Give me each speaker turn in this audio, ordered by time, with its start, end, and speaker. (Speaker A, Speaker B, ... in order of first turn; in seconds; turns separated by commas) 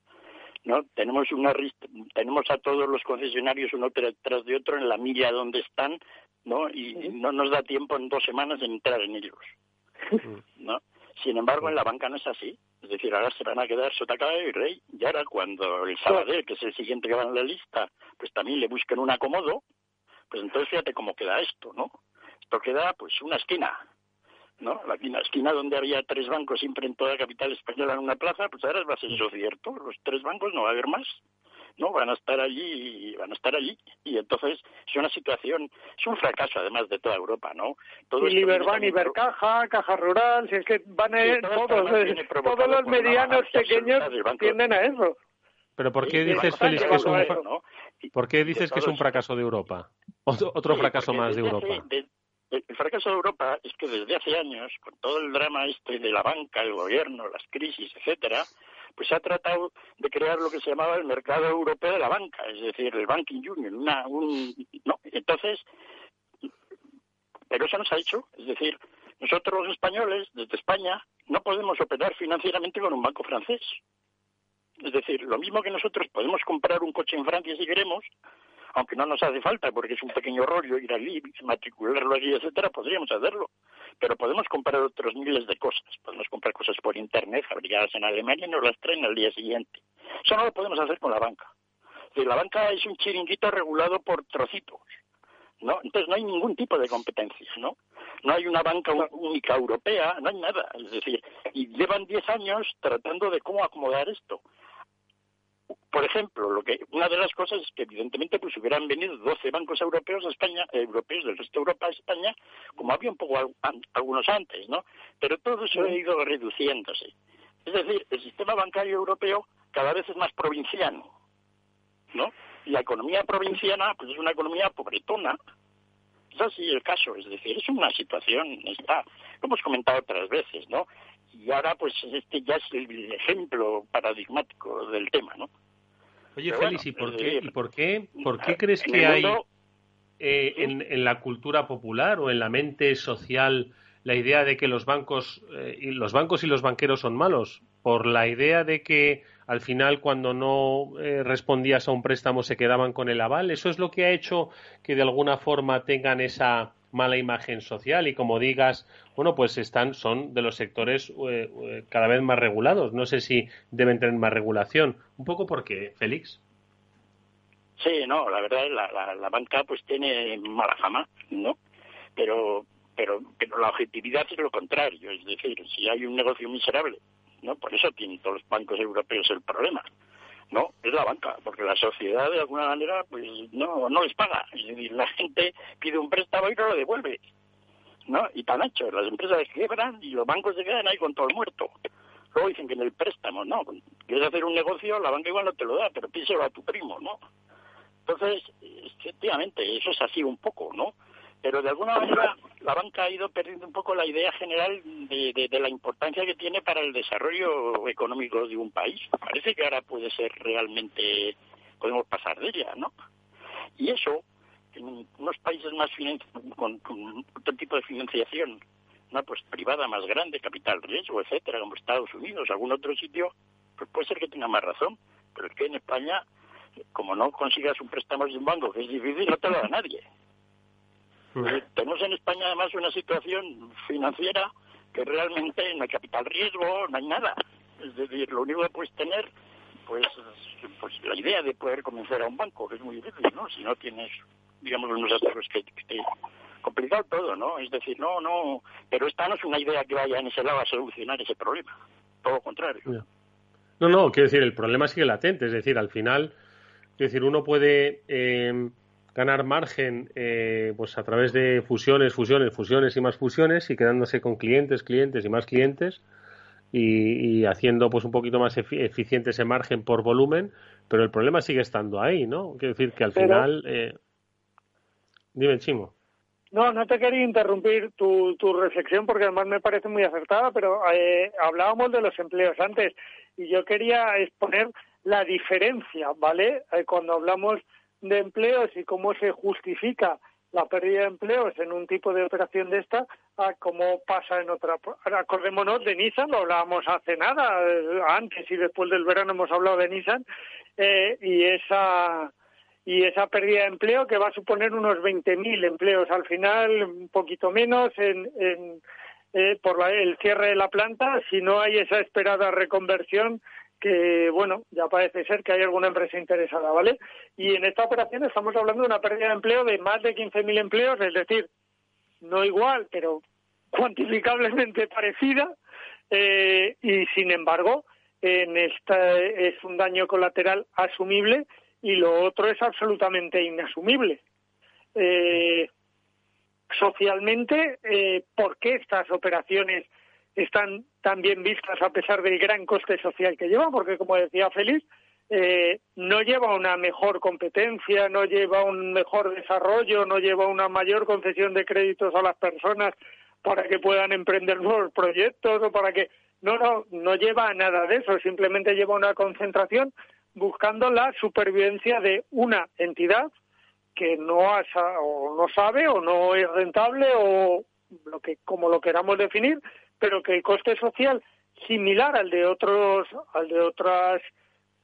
Speaker A: 0.7-9.5, Speaker A: 10.6-19.6, Speaker A: 20.3-21.9, Speaker A: 22.5-23.8, Speaker A: 24.6-31.2, Speaker A: 31.8-39.1, Speaker B: 38.2-45.1, Speaker A: 41.2-44.7, Speaker C: 45.8-47.4, Speaker A: 46.0-49.2, Speaker B: 46.3-47.4, Speaker C: 48.1-51.8, Speaker A: 50.7-65.6, Speaker A: 67.5-73.8, Speaker A: 74.8-78.1, Speaker A: 78.7-91.5, Speaker A: 92.1-94.8, Speaker A: 95.6-104.4, Speaker A: 105.9-117.1, Speaker A: 117.6-121.1, Speaker A: 122.1-125.4, Speaker A: 126.3-135.5, Speaker C: 136.3-139.4, Speaker A: 136.5-137.5, Speaker A: 138.4-139.4, Speaker C: 140.2-166.4, Speaker A: 167.8-171.6, Speaker A: 172.2-179.8, Speaker A: 180.5-187.2, Speaker A: 188.1-191.7, Speaker A: 192.3-197.2, Speaker A: 198.1-212.9, Speaker A: 213.8-214.2, Speaker A: 214.7-218.6, Speaker A: 219.1-226.2, Speaker A: 226.9-230.0, Speaker A: 231.4-239.3, Speaker A: 239.9-246.1, Speaker A: 246.6-252.9, Speaker C: 253.8-256.3, Speaker C: 257.0-266.0, Speaker C: 266.7-273.9, Speaker B: 273.1-273.5, Speaker C: 275.3-275.9, Speaker B: 276.5-300.2, Speaker B: 300.8-302.3, Speaker B: 302.9-308.8, Speaker B: 309.3-321.5, Speaker B: 322.2-325.5, Speaker B: 326.1-334.2, Speaker B: 334.9-335.7, Speaker B: 336.7-363.3, Speaker B: 363.9-374.3